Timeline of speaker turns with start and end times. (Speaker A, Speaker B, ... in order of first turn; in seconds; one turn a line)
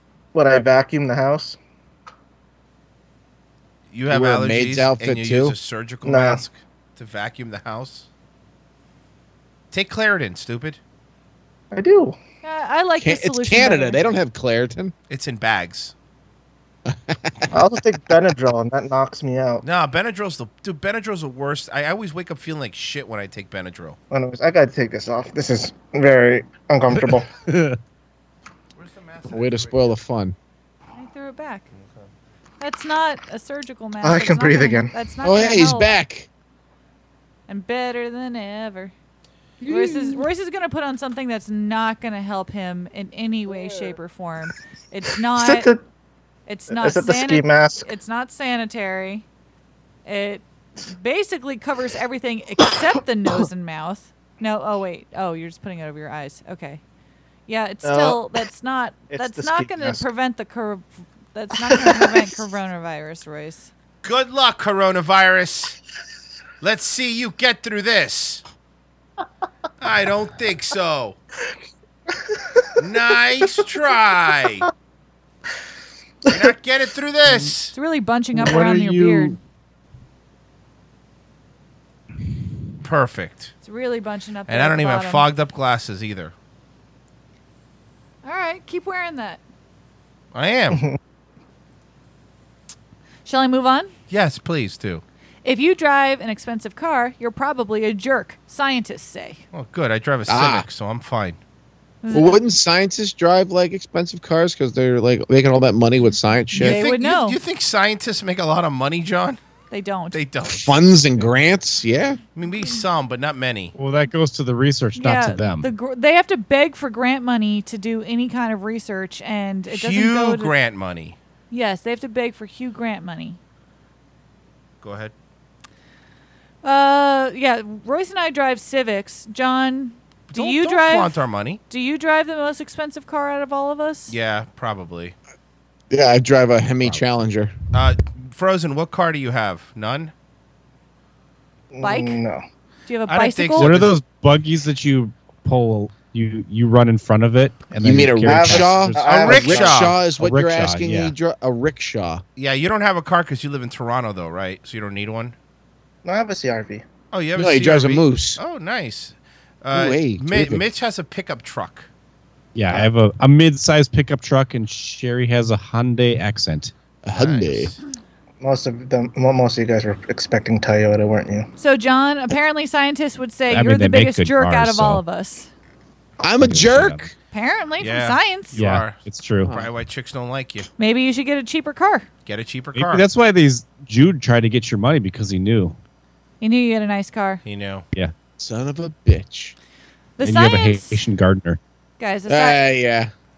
Speaker A: 0.3-1.6
Speaker B: 3.9-8.1
Speaker C: 4.1-5.5
Speaker A: 6.0-6.4
Speaker B: 9.7-10.8
Speaker A: 11.7-12.2
Speaker D: 12.4-14.0
Speaker C: 13.0-14.9
Speaker B: 15.1-15.9
Speaker C: 16.9-17.5
Speaker A: 17.5-19.6
Speaker B: 19.6-24.0
Speaker A: 24.1-27.3
Speaker E: 27.1-27.8
Speaker B: 28.8-29.9
Speaker C: 29.3-30.4
Speaker D: 31.0-31.7
Speaker D: 32.6-35.9
Speaker A: 34.0-34.9
Speaker C: 35.2-36.3
Speaker D: 37.5-38.9
Speaker D: 39.6-45.7
Speaker A: 45.4-45.8
Speaker D: 46.5-49.2
Speaker A: 46.7-47.9
Speaker D: 50.1-56.8
Speaker D: 57.5-63.7
Speaker A: 57.8-58.3
Speaker A: 59.1-60.1
Speaker A: 61.6-62.3
Speaker B: 64.0-65.8
Speaker B: 66.6-68.4
Speaker B: 69.8-71.2
Speaker B: 72.8-74.7
Speaker A: 76.2-76.5
Speaker B: 76.3-77.8
Speaker D: 77.7-79.4
Speaker E: 78.3-79.4
Speaker B: 82.8-83.5
Speaker D: 83.6-85.3
Speaker B: 84.5-86.3
Speaker D: 88.2-89.4
Speaker B: 90.3-90.8
Speaker D: 93.3-93.9
Speaker B: 94.1-95.0
Speaker D: 95.5-99.5
Speaker B: 99.5-101.4
Speaker C: 100.3-100.7
Speaker D: 102.0-102.4
Speaker C: 102.1-106.8
Speaker D: 106.6-107.4
Speaker B: 106.6-109.4
Speaker D: 109.7-110.2
Speaker B: 110.1-110.8
Speaker C: 110.5-112.2
Speaker B: 112.4-113.8
Speaker E: 113.8-115.7
Speaker D: 115.0-120.5
Speaker B: 119.7-121.2
Speaker D: 121.5-123.4
Speaker B: 124.8-125.1
Speaker D: 126.6-134.2
Speaker B: 130.3-131.6
Speaker B: 134.1-135.2
Speaker C: 135.9-137.5
Speaker B: 137.7-140.1
Speaker A: 141.7-142.4
Speaker D: 141.8-142.2
Speaker D: 142.9-143.8
Speaker B: 143.1-144.0
Speaker E: 143.6-149.5
Speaker A: 147.8-149.9
Speaker C: 147.8-152.2
Speaker B: 149.2-150.0
Speaker E: 150.0-151.1
Speaker B: 152.4-155.3
Speaker A: 156.1-156.8
Speaker B: 157.1-161.9
Speaker C: 157.4-158.4
Speaker C: 159.7-160.7
Speaker E: 162.6-166.7
Speaker C: 167.0-167.7
Speaker B: 167.1-167.8
Speaker A: 168.4-171.5
Speaker D: 171.6-175.5
Speaker E: 173.5-175.0
Speaker C: 176.2-177.1
Speaker E: 176.4-177.1
Speaker D: 177.3-178.6
Speaker B: 177.8-180.7
Speaker E: 178.6-179.5
Speaker C: 179.4-179.7
Speaker D: 180.8-182.1
Speaker B: 182.3-183.1
Speaker E: 182.7-185.8
Speaker D: 186.4-187.4
Speaker B: 187.4-187.8
Speaker C: 188.4-189.6
Speaker D: 190.2-191.0
Speaker E: 190.2-191.6
Speaker D: 192.0-192.6
Speaker C: 192.3-193.1